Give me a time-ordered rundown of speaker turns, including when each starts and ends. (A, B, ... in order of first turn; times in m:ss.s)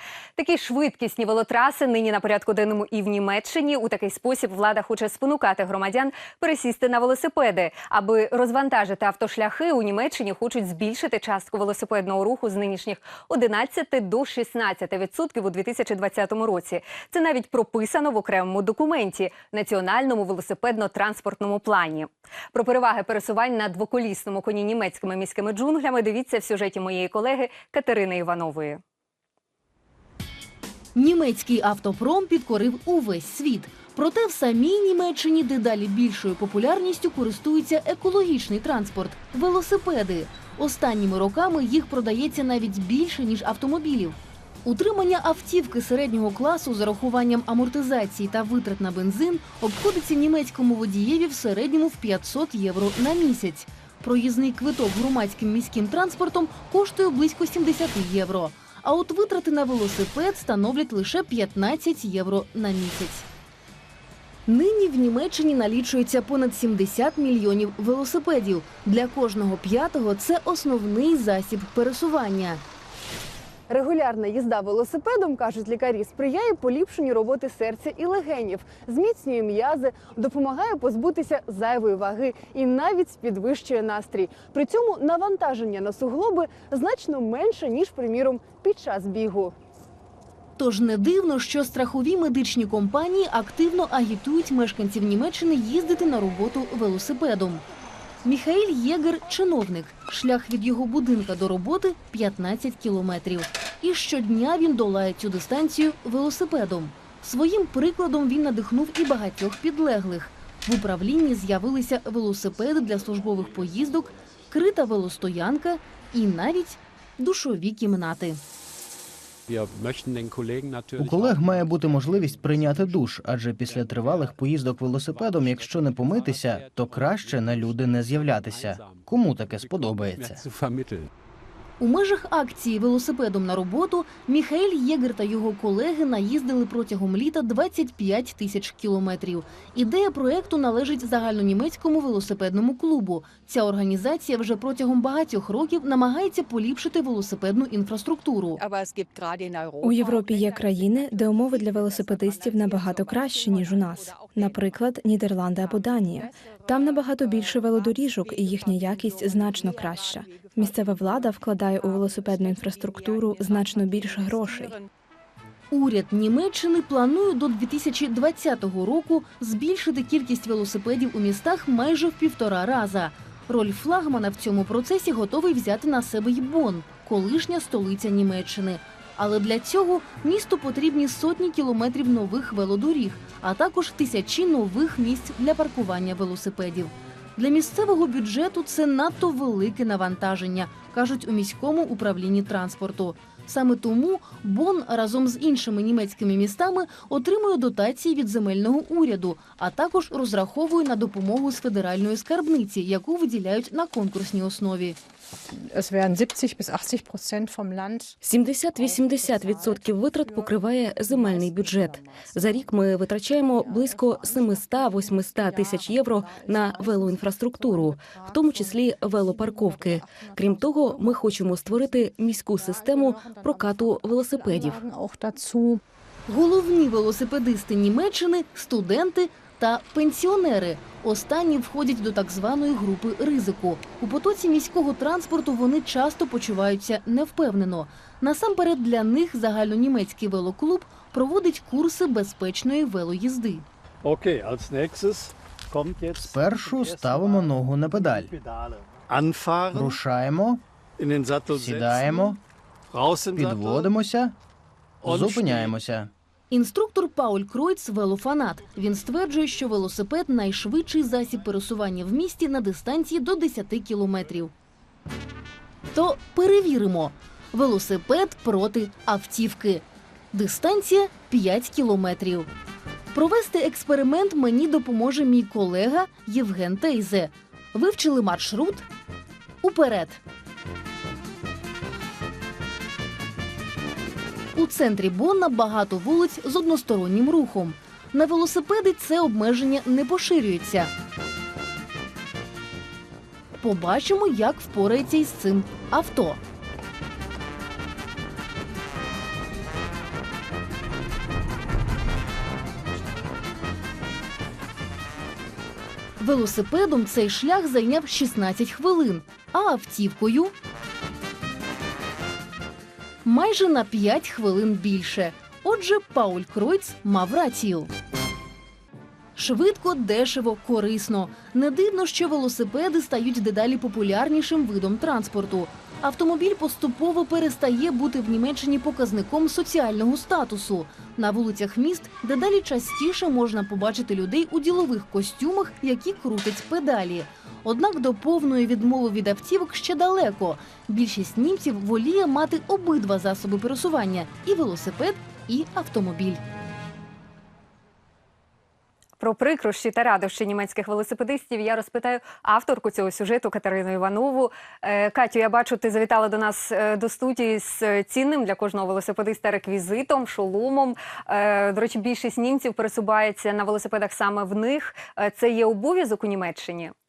0:00.4-0:28.8 A
0:31.0-1:03.3 B
1:04.5-1:12.6 B
1:13.7-1:29.6 C
1:30.6-1:37.6 B
1:38.2-1:58.4 B
2:01.0-2:10.4 D
2:11.8-2:28.6 B
2:28.6-2:29.8 C
2:29.8-2:44.8 E
2:45.7-3:25.0 B
3:25.5-3:28.2 F
3:28.2-3:44.8 G
3:28.8-3:32.4 F
3:33.6-3:38.7 F
3:39.3-3:41.1 F
3:42.6-3:45.8 F
3:46.3-4:03.6 B
4:04.0-4:10.0 H
4:06.2-4:08.3 D
4:09.7-4:10.6 D
4:11.0-4:12.4 H
4:11.5-4:12.4 D
4:12.9-4:13.9 H
4:13.4-4:14.4 D
4:15.0-4:15.8 H
4:15.0-4:16.1 D
4:16.5-4:24.5 B
4:25.9-4:32.5 B
4:33.1-4:38.9 B
4:39.6-4:40.2 B
4:44.6-4:50.9 B
4:53.6-4:56.4 B
5:06.2-5:10.5 B
5:13.2-5:17.9 B
5:19.4-5:46.4 B
5:49.2-6:06.9 A